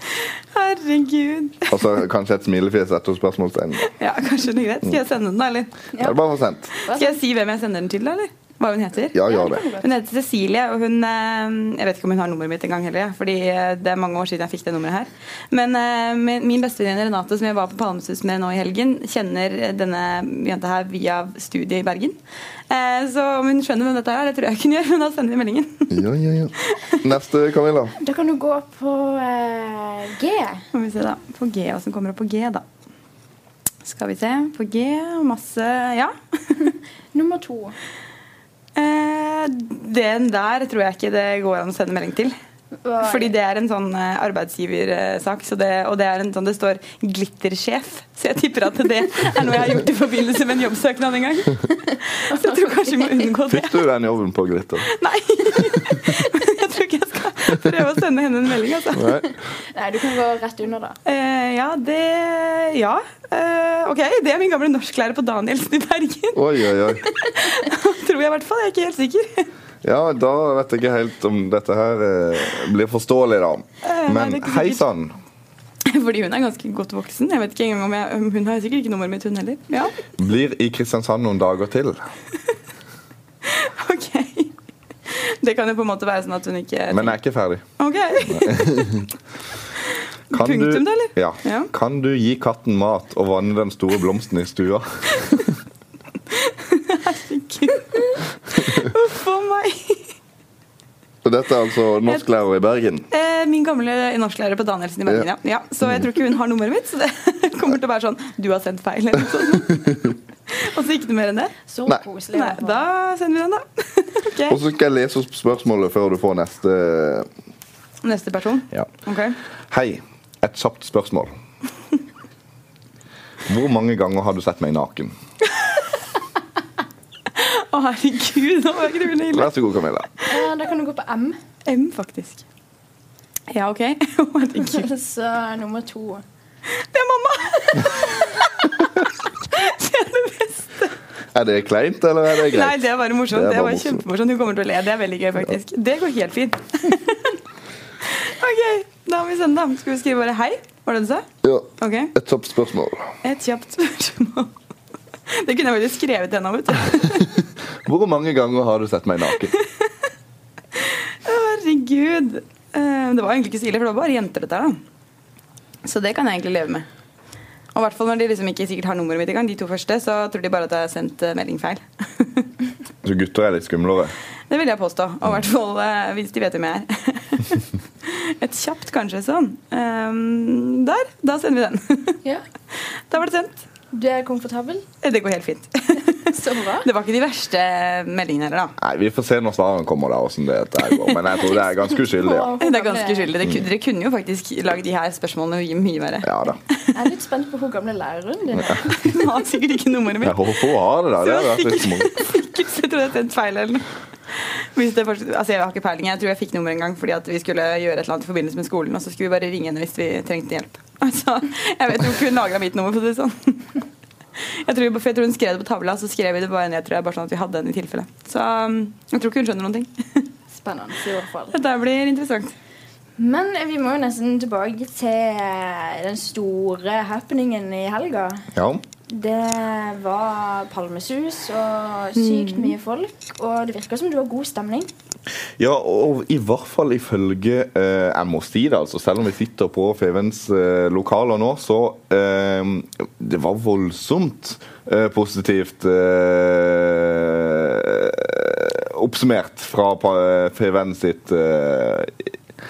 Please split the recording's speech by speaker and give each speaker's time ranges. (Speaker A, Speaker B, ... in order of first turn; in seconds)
Speaker A: 0.5-1.9, 4.0-5.7, 6.8-9.2, 9.8-22.2, 22.7-26.0, 30.7-32.6, 33.8-36.5, 38.8-42.4, 43.0-53.8, 54.9-59.1, 61.0-66.4, 67.0-69.5, 73.8-74.8, 75.8-79.9, 83.4-84.5, 85.1-87.2, 87.8-88.9, 90.3-91.7, 96.3-100.0, 103.1-110.0, 110.5-111.5, 112.3-114.6, 118.0-119.4, 127.3-129.6, 131.7-132.4, 133.5-134.9, 136.7-140.9, 142.4-147.4, 148.0-151.2, 151.8-152.1, 153.2-154.5, 155.3-157.3, 159.4-159.9, 160.8-164.8, 165.8-166.8, 167.7-172.5, 174.5-182.2, 183.1-183.6, 185.0-186.3, 186.8-188.7, 192.6-196.9, 198.9-200.6, 201.2-203.8, 204.4-213.8, 214.4-220.2, 221.5-222.5, 232.2-232.7
Speaker B: 1.7-3.9, 6.0-6.7, 9.1-9.6, 25.9-27.9, 53.5-54.9, 58.9-59.3, 66.3-67.0, 69.8-75.2, 80.2-82.0, 86.9-87.6, 88.2-89.1, 90.3-95.5, 101.2-103.1, 114.5-117.3, 119.7-121.3, 123.5-125.1, 129.3-130.1, 141.3-144.0, 151.4-153.1, 157.8-159.5, 173.0-174.1, 188.8-192.5, 196.2-196.6, 200.2-202.2, 228.5-228.8, 235.6-252.3
Speaker C: 5.9-6.2, 6.8-7.2, 9.2-9.9, 28.0-30.6, 36.6-37.7, 42.8-43.3, 52.3-53.2, 59.7-61.0, 111.7-112.8, 130.3-131.4, 134.6-136.2, 183.9-184.8, 186.3-186.9, 191.9-193.3, 196.9-199.2, 220.5-221.6, 223.2-228.5, 229.1-234.9